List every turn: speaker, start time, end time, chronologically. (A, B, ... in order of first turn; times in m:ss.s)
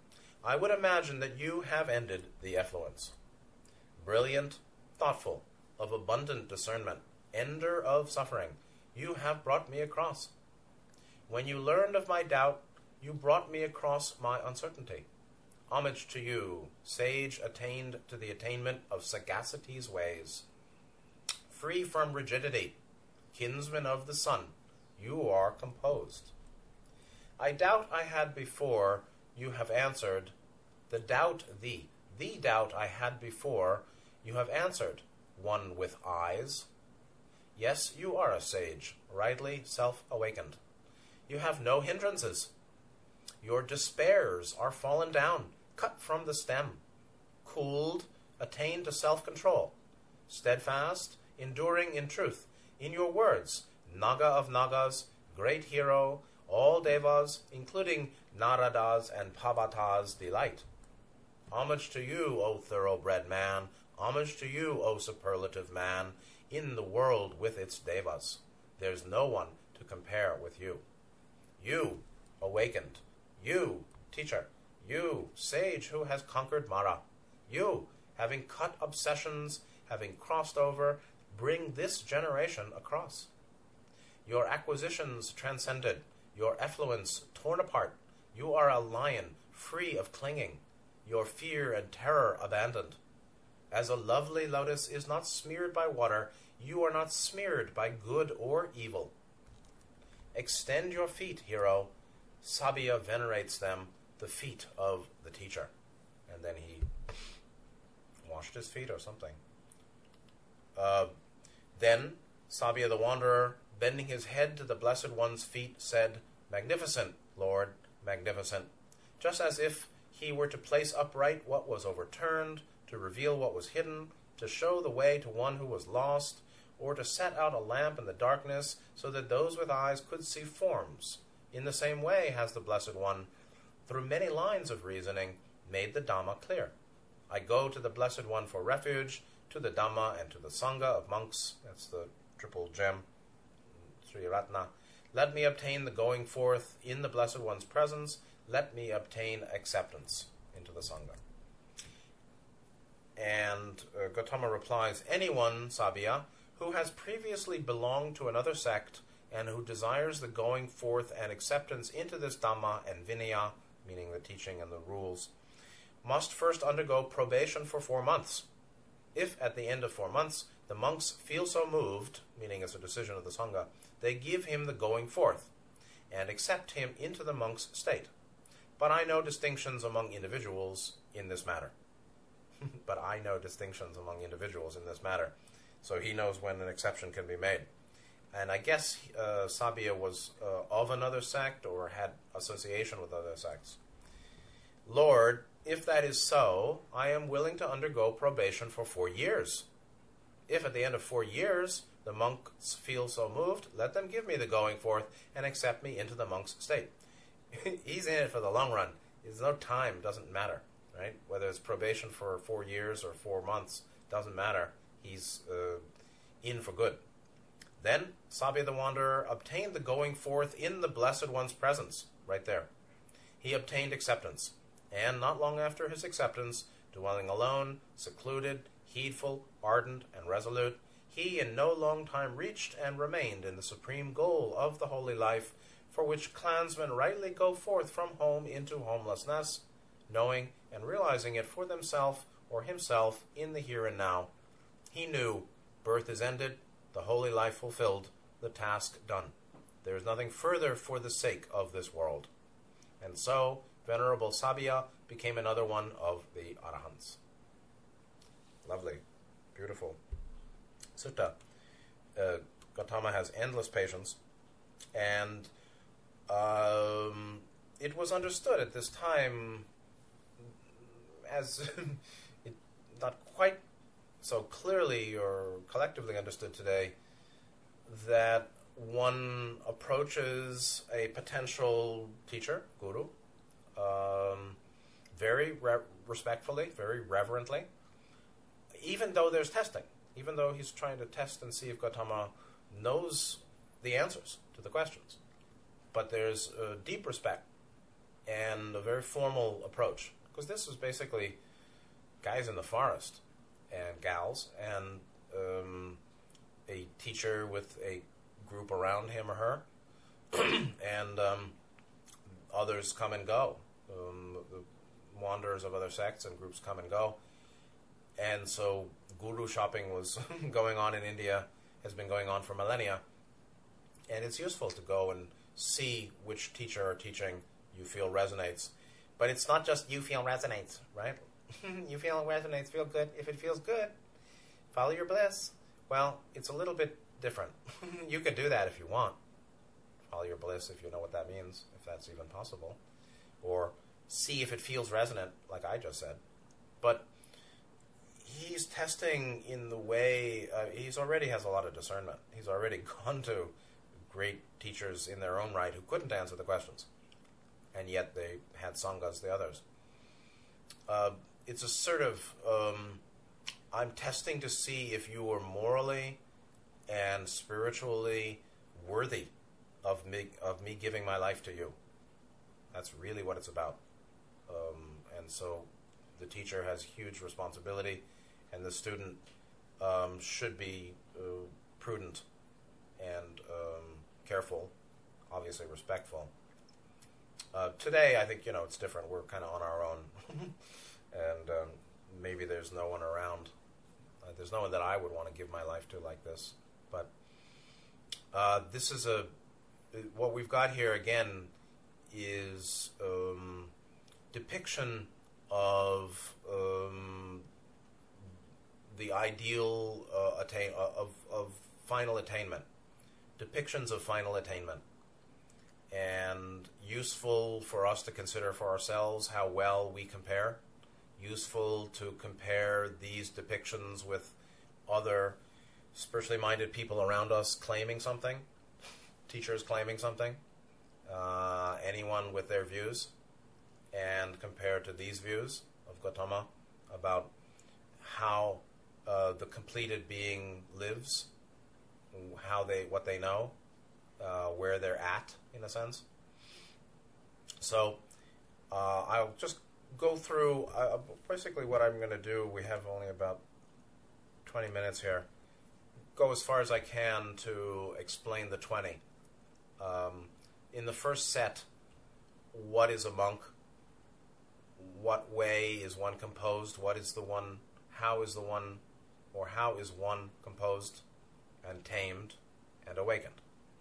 0:00.4-0:03.1 A
0:04.0-0:10.3 A
0:11.3-0:15.1 A
0:15.7-0:20.4 A
0:21.5-0:22.8 A
0:23.3-0:26.3 A
0:27.4-0:30.3 A
0:30.9-0:36.7 A
0:37.6-0:40.6 A
0:41.3-0:42.5 A
0:43.4-0:46.8 A
0:47.4-0:49.7 A
0:50.3-1:00.6 A
1:01.5-1:10.8 A
1:11.6-1:23.3 A
1:24.2-1:33.0 A
1:33.7-1:39.1 A
1:40.3-1:45.7 A
1:46.3-1:46.9 A
1:48.2-1:49.4 A
1:50.7-1:51.1 A
1:51.8-2:13.3 A
2:13.9-2:16.7 A
2:17.3-2:23.0 A
2:24.0-2:31.2 A
2:33.2-2:45.3 A
2:46.0-2:48.5 A
2:49.1-2:55.5 A
2:56.1-2:58.1 A
2:58.8-3:01.7 A
3:02.8-3:07.7 A
3:08.3-3:13.8 A
3:14.8-3:19.7 A
3:20.5-3:26.9 A
3:27.5-3:35.8 A
3:36.4-3:37.0 A
3:37.8-3:42.7 A
3:43.4-4:04.3 A
4:04.9-4:12.3 A
4:13.0-4:17.2 A
4:18.6-4:19.0 A
4:19.5-4:20.0 A
4:21.0-4:21.4 A
4:22.1-4:24.2 A
4:24.9-4:25.5 A
4:26.3-4:29.7 A
4:31.2-4:33.6 A
4:34.2-4:36.9 A
4:37.8-4:43.1 A
4:43.8-4:44.6 A
4:45.1-4:47.7 A
4:48.8-4:55.2 A
4:55.9-4:57.5 A
4:58.3-5:01.4 A
5:02.2-5:06.0 A
5:06.7-5:09.6 A
5:10.3-5:11.6 A
5:12.5-5:17.2 A
5:18.2-5:23.0 A
5:24.1-5:33.9 A
5:34.7-5:39.2 A
5:40.1-5:42.8 A
5:43.4-5:46.2 A
5:46.8-5:47.1 A
5:48.2-5:53.5 A
5:54.1-5:56.9 A
5:57.7-5:59.6 A
6:00.9-6:03.0 A
6:03.7-6:06.2 A
6:06.9-6:09.3 A
6:09.8-6:11.8 A
6:12.7-6:13.8 A
6:14.5-6:19.2 A
6:19.8-6:22.2 A
6:23.0-6:24.7 A
6:25.3-6:26.3 A
6:27.5-6:30.5 A
6:31.1-6:33.5 A
6:34.2-6:37.1 A
6:38.3-6:39.3 A
6:39.9-6:41.5 A
6:42.1-6:43.7 A
6:44.3-6:47.5 A
6:48.9-6:52.7 A
6:53.4-6:54.8 A
6:55.9-7:00.6 A
7:01.2-7:05.4 A
7:05.9-7:08.4 A
7:09.3-7:10.4 A
7:11.0-7:13.1 A
7:13.9-7:17.3 A
7:18.0-7:21.3 A
7:22.1-7:23.5 A
7:24.2-7:26.0 A
7:27.6-7:28.0 A
7:28.7-7:33.4 A
7:34.4-7:35.3 A
7:36.1-7:39.0 A
7:39.8-7:41.7 A
7:42.5-7:43.5 A
7:44.8-7:51.0 A
7:51.6-7:53.4 A